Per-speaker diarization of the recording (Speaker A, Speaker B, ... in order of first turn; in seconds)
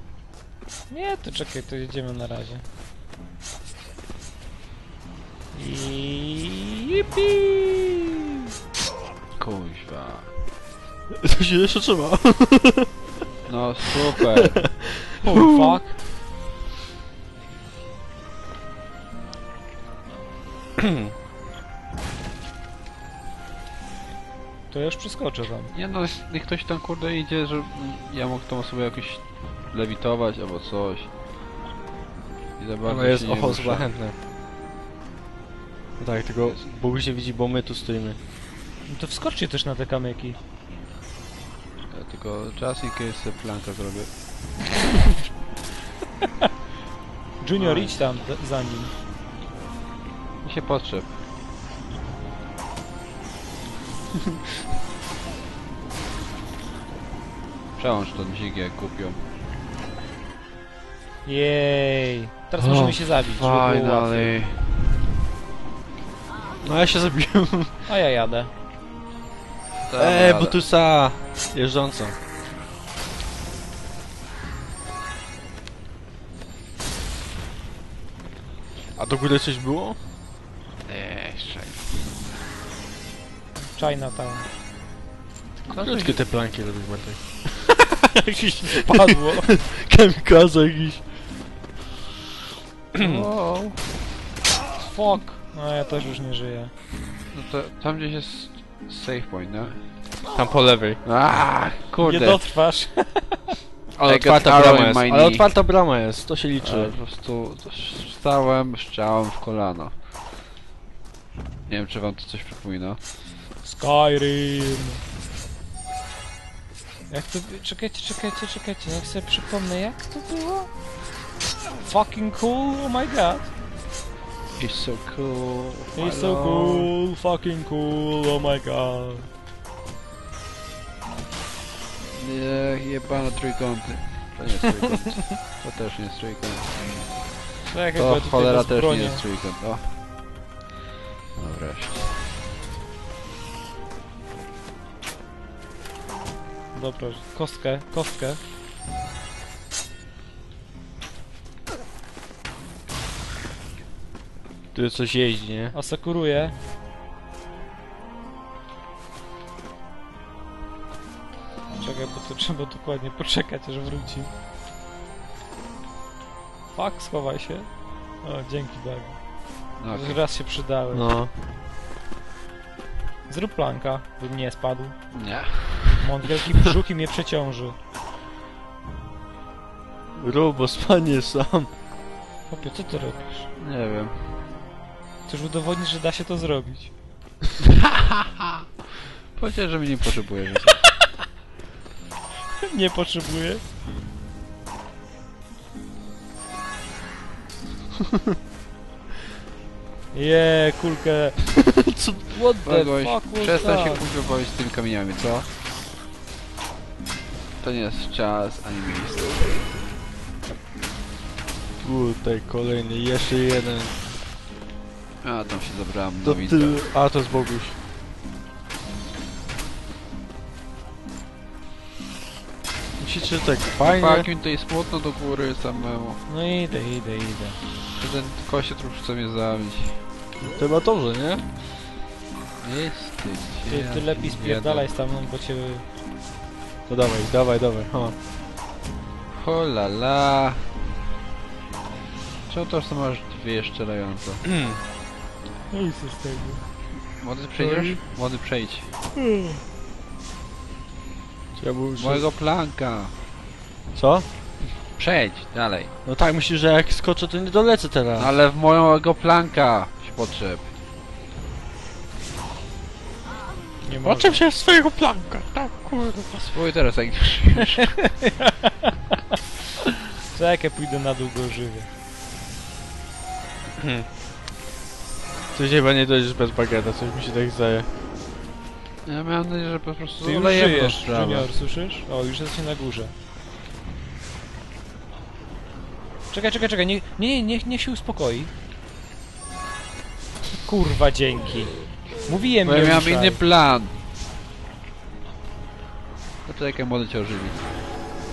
Speaker A: 0.9-2.6, 5.5-7.8, 15.2-16.0, 24.7-25.7, 38.8-40.4, 47.4-48.9, 61.2-64.3, 67.9-68.5, 83.7-84.5, 88.4-89.5, 94.8-96.7, 102.0-103.6, 113.6-115.0, 117.1-120.7, 121.8-123.5, 125.9-129.3, 137.7-139.2, 146.7-148.4, 155.7-156.6, 161.8-164.3, 166.7-171.1, 173.3-175.0, 175.9-177.8, 182.5-183.5, 185.3-186.9, 192.6-193.6, 200.1-201.5, 202.3-204.1, 226.3-227.6, 233.7-235.8, 245.7-246.6, 247.6-248.0, 249.2-249.6, 263.8-264.4, 270.3-271.9, 280.2-283.1, 286.3-288.5, 290.6-293.4
Speaker B: 9.4-10.3, 13.4-15.4, 25.7-31.1, 32.6-33.9, 36.4-36.7, 41.9-44.8, 47.6-47.9, 50.4-51.2, 57.8-59.2, 62.6-64.8, 69.8-70.6, 80.8-82.0, 85.7-86.3, 93.0-94.0, 97.3-99.8, 101.0-102.4, 104.0-105.5, 106.6-110.0, 111.7-113.0, 124.5-126.9, 132.1-140.0, 141.3-142.3, 169.8-170.2, 175.1-176.0, 183.6-184.4, 189.3-190.9, 202.6-205.5, 207.6-209.7, 215.2-216.9, 223.8-226.2, 227.9-230.0, 232.6-234.9, 239.3-240.8, 242.5-244.4, 247.2-248.9, 252.0-253.2, 254.9-255.9, 258.2-260.7, 266.3-268.2, 279.1-281.5, 292.6-294.0, 296.4-297.6
Speaker C: 11.2-12.9, 20.8-21.1, 32.8-34.2, 36.0-38.2, 66.6-67.7, 70.0-72.2, 79.0-80.0, 85.7-88.9, 89.5-91.1, 92.9-93.2, 100.3-101.0, 104.0-106.9, 154.7-155.8, 170.9-171.3, 180.2-181.7, 201.8-202.3, 211.8-213.9, 216.2-217.8, 223.0-224.3, 230.5-231.4, 236.9-238.2, 244.4-244.8, 251.6-252.3, 253.9-254.2, 256.0-258.3, 264.0-266.3, 273.8-274.1, 275.5-277.9